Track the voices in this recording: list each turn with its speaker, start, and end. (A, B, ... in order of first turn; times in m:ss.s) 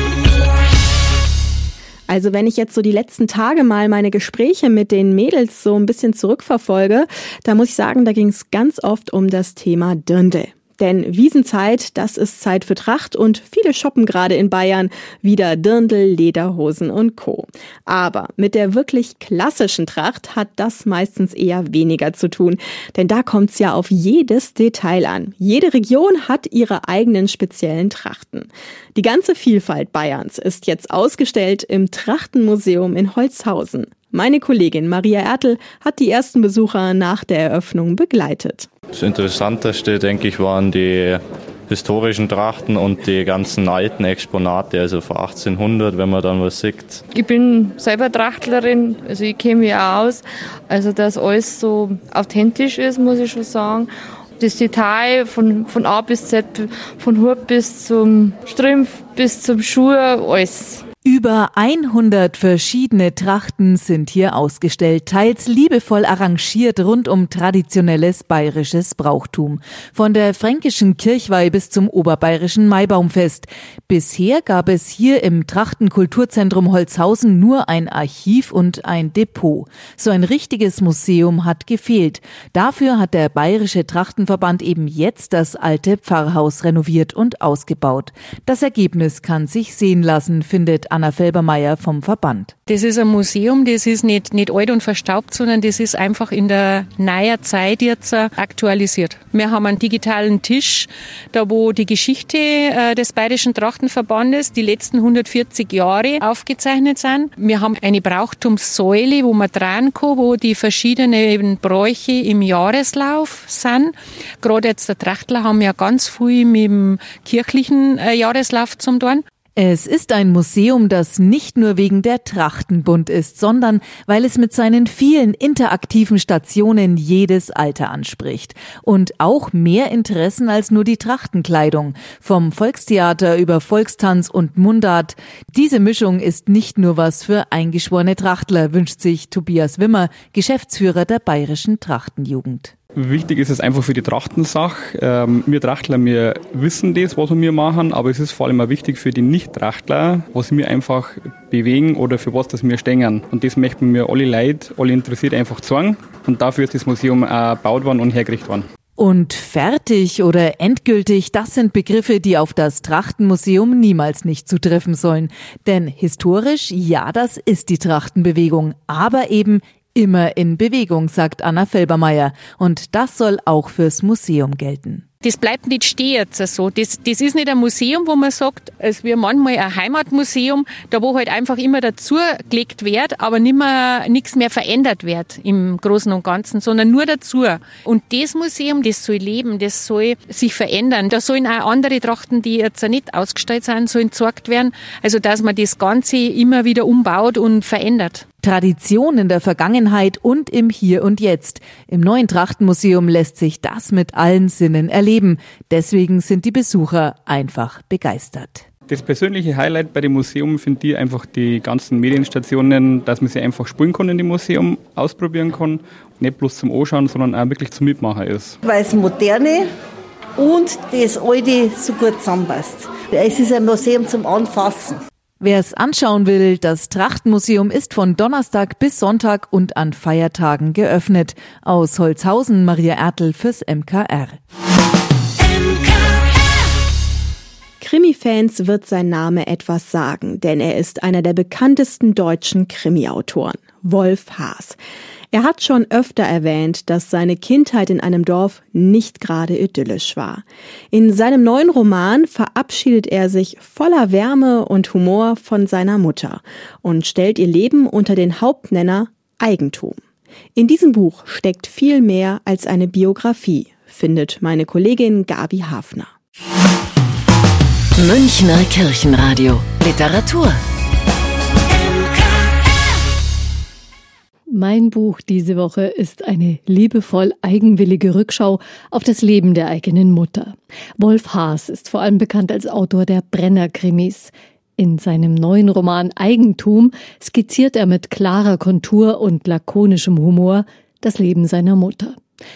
0:02.1-0:38.7 A
0:38.9-0:47.0 B
0:47.1-1:00.8 C
1:01.0-1:32.5 D
1:32.7-1:59.2 E
1:59.6-2:22.7 D
2:23.0-2:38.6 F
2:39.0-2:55.0 D
2:55.2-3:18.2 E
3:18.4-3:28.6 D
3:28.9-3:38.6 F
3:38.6-3:39.6 G
3:40.4-3:44.9 G
3:45.4-3:54.4 D
3:57.8-4:04.8 A
4:05.3-4:20.0 A
4:20.6-4:26.1 A
4:28.0-4:30.6 G
4:34.5-4:52.2 H